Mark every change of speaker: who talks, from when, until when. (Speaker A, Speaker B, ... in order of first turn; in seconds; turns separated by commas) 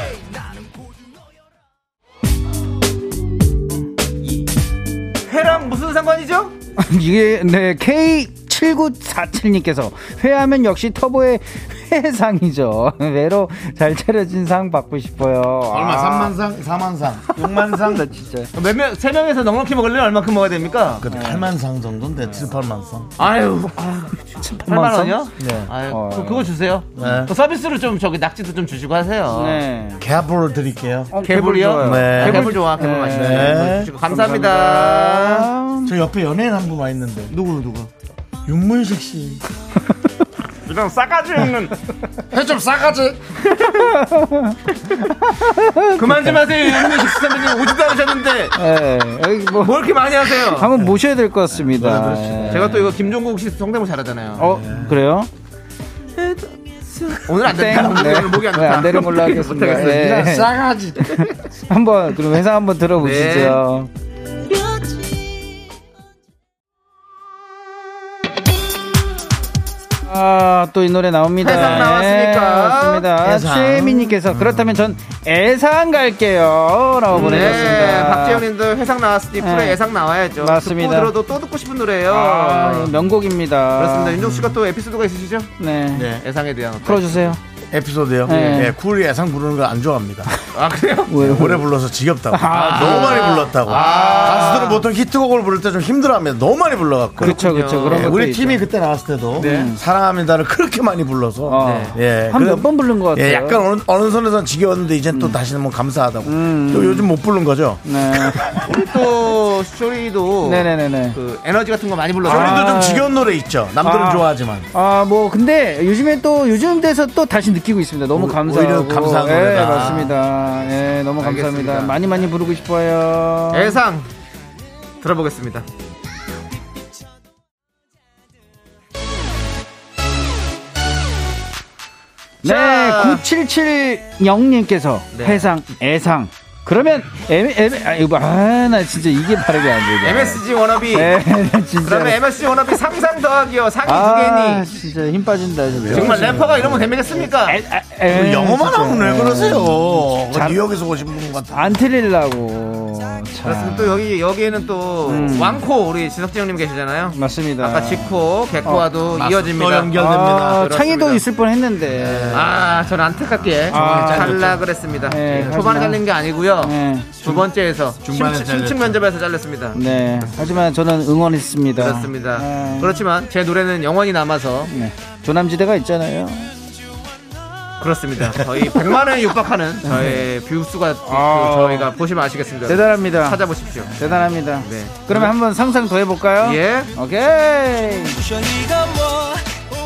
Speaker A: 5.3-6.5, Speaker B: 6.8-16.4, Speaker C: 15.7-18.1, Speaker B: 17.4-18.5, Speaker A: 18.5-21.1, Speaker C: 21.0-23.1, Speaker B: 21.1-21.5, Speaker A: 23.2-29.6, Speaker B: 24.4-25.3, Speaker C: 25.4-25.7, Speaker B: 25.9-27.2, Speaker C: 27.0-27.3, Speaker B: 29.3-30.0, Speaker C: 30.0-31.2, Speaker B: 31.1-35.9, Speaker A: 31.2-35.5, Speaker C: 31.8-33.9, Speaker C: 35.9-37.3, Speaker A: 37.3-37.9, Speaker C: 38.5-39.4, Speaker A: 40.7-41.7, Speaker C: 42.3-43.2, Speaker A: 43.4-44.0, Speaker B: 43.6-47.7, Speaker A: 46.0-48.6, Speaker B: 48.5-52.9, Speaker A: 49.6-50.7, Speaker C: 51.6-52.7, Speaker A: 52.5-54.6, Speaker B: 54.4-55.3, Speaker C: 54.4-55.0, Speaker A: 56.2-60.1, Speaker B: 57.4-63.9, Speaker C: 59.7-61.3, Speaker A: 63.0-63.6, Speaker B: 70.1-78.5, Speaker A: 71.4-73.1, Speaker C: 73.2-74.8, Speaker A: 77.1-83.0, Speaker B: 79.4-79.8, Speaker B: 80.4-81.2, Speaker B: 82.1-84.2, Speaker A: 83.8-85.5, Speaker C: 84.2-84.6, Speaker B: 85.6-86.1, Speaker C: 85.9-86.2, Speaker A: 86.1-87.4, Speaker B: 86.8-87.4, Speaker C: 87.7-90.3, Speaker B: 88.3-88.8, Speaker A: 90.5-91.2, Speaker B: 91.1-91.7, Speaker C: 91.2-108.8, Speaker B: 92.3-94.8, Speaker A: 92.5-94.8, Speaker A: 97.2-98.2, Speaker B: 97.2-98.7, Speaker A: 99.4-99.7, Speaker B: 99.4-99.8, Speaker B: 101.5-103.6, Speaker A: 101.6-102.0, Speaker B: 106.2-107.1, Speaker B: 107.8-108.5, Speaker A: 108.6-112.8, Speaker B: 110.4-111.2, Speaker B: 112.2-113.1, Speaker C: 112.2-114.7, Speaker B: 113.8-123.8, Speaker C: 118.1-120.2, Speaker A: 121.2-122.0, Speaker A: 123.5-124.1, Speaker A: 125.0-125.7, Speaker A: 132.4-133.2, Speaker B: 132.4-142.2, Speaker A: 135.1-135.5, Speaker A: 140.0-141.2, Speaker A: 141.8-144.7, Speaker B: 143.8-150.6, Speaker C: 145.7-146.9, Speaker A: 145.9-147.6, Speaker C: 148.1-151.8, Speaker B: 151.5-154.0, Speaker A: 153.4-161.2, Speaker B: 155.1-155.7, Speaker B: 157.2-158.8, Speaker C: 159.1-160.7, Speaker B: 159.9-162.5, Speaker C: 161.9-162.5, Speaker A: 162.3-169.8, Speaker B: 163.7-164.6, Speaker C: 163.7-164.7, Speaker B: 165.1-166.0, Speaker B: 166.6-167.2, Speaker C: 168.0-169.1, Speaker B: 169.8-173.0, Speaker A: 171.8-174.7, Speaker B: 174.7-176.5, Speaker A: 177.8-185.3, Speaker B: 179.8-180.2, Speaker B: 181.1-181.9, Speaker B: 182.7-183.4, Speaker B: 183.9-188.5, Speaker A: 186.4-186.9